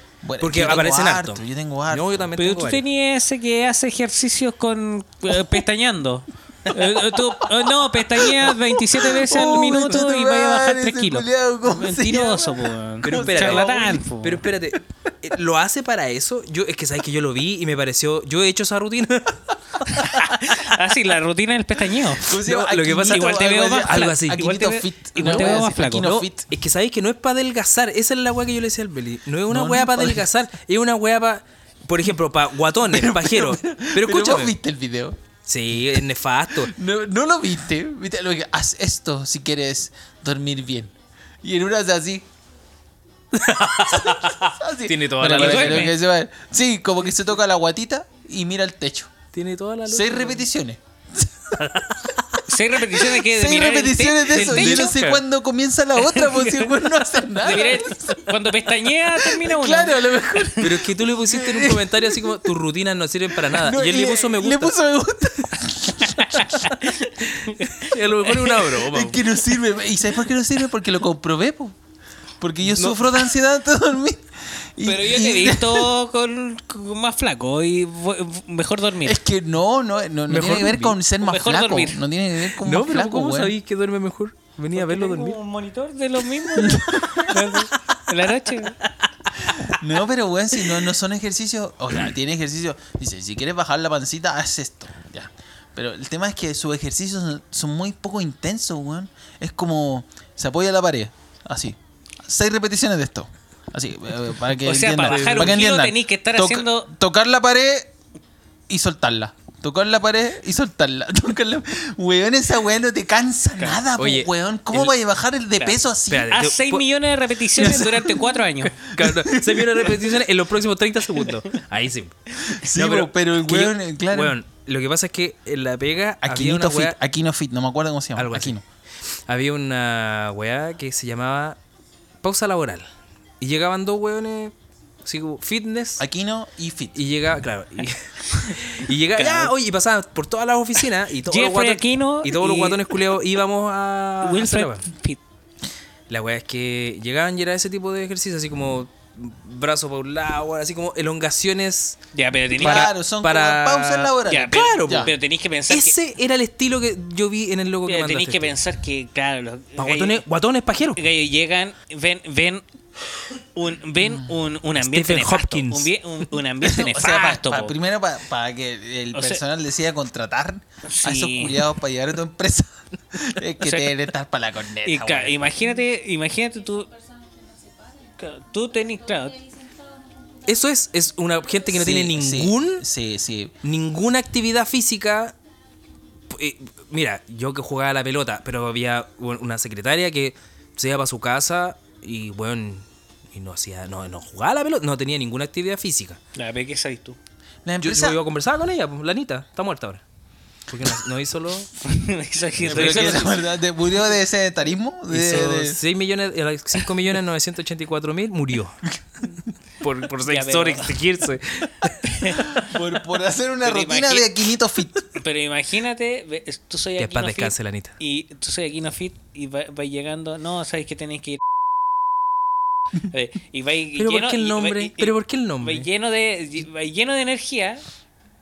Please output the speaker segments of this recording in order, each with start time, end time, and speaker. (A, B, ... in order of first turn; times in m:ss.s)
0:00.2-0:02.3 A
0:00.4-0:02.8 B
0:02.4-0:14.4 C
0:08.0-0:14.0 A
0:13.0-0:20.8 B
0:20.4-0:22.3 C
0:22.2-0:26.5 A
0:22.3-0:24.6 B
0:23.1-0:26.2 C
0:25.2-0:34.5 B
0:29.5-0:30.3 A
0:32.8-0:35.2 A
0:35.4-0:36.7 B
0:36.5-0:42.2 A
0:43.3-0:46.0 B
0:43.7-0:49.1 A
0:45.3-0:46.0 C
0:49.3-0:50.4 B
0:49.8-0:51.6 A
0:51.6-0:52.4 B
0:52.5-0:54.9 C
0:53.1-0:58.3 A
0:54.3-0:55.2 B
0:56.2-0:56.5 C
0:57.4-1:00.5 C
0:59.0-1:02.5 A
1:00.6-1:04.8 B
1:03.3-1:06.8 A
1:06.9-1:07.6 C
1:07.6-1:09.4 B
1:08.3-1:11.7 A
1:12.4-1:15.9 A
1:12.6-1:13.2 B
1:14.8-1:19.2 C
1:19.0-1:23.5 A
1:20.3-1:21.0 B
1:21.2-1:22.0 C
1:22.5-1:25.4 B
1:24.7-1:28.8 C
1:26.6-1:27.2 A
1:26.6-1:27.6 B
1:28.6-1:29.8 B
1:29.6-1:47.9 A
1:44.6-1:46.9 C
1:45.0-1:45.6 B
1:48.7-1:56.4 A
1:53.7-1:55.0 B
1:55.6-1:56.9 B
1:56.3-1:58.8 C
1:57.5-2:07.0 B
1:57.6-1:58.0 A
1:58.9-2:00.2 A
2:02.4-2:04.4 A
2:06.2-2:08.6 A
2:08.2-2:08.6 B
2:09.3-2:11.6 B
2:12.2-2:12.8 B
2:13.4-2:14.5 B
2:15.0-2:16.0 B
2:16.0-2:17.0 A
2:16.9-2:24.9 B
2:19.2-2:19.5 A
2:21.3-2:23.0 C
2:24.2-2:25.2 C
2:26.1-2:32.0 B
2:32.1-2:32.9 C
2:32.5-2:35.1 A
2:32.6-2:35.1 B
2:34.3-2:35.9 C
2:35.7-2:38.6 B
2:37.8-2:40.2 C
2:39.8-2:41.0 B
2:40.9-2:42.6 C
2:43.5-2:47.8 C
2:44.8-2:45.9 B
2:46.6-2:55.5 A
2:49.1-2:49.4 C
2:50.8-2:51.6 C
2:53.6-2:53.9 C
2:54.8-2:56.9 C
2:58.2-2:59.5 C
3:00.4-3:02.8 B
3:01.7-3:03.5 A
3:03.6-3:05.3 B
3:06.3-3:16.2 B
3:16.3-3:17.2 C
3:17.6-3:18.2 A
3:17.8-3:20.0 B
3:20.7-3:21.7 B
3:21.8-3:23.4 C
3:22.6-3:23.3 B
3:22.6-3:25.8 A
3:25.1-3:28.8 B
3:29.8-3:32.6 B
3:30.2-3:31.0 C
3:32.0-3:32.6 C
3:32.6-3:35.1 A
3:33.6-3:34.3 C
3:35.1-3:41.4 C
3:37.0-3:38.0 B
3:43.1-3:47.8 C
3:43.9-3:45.9 B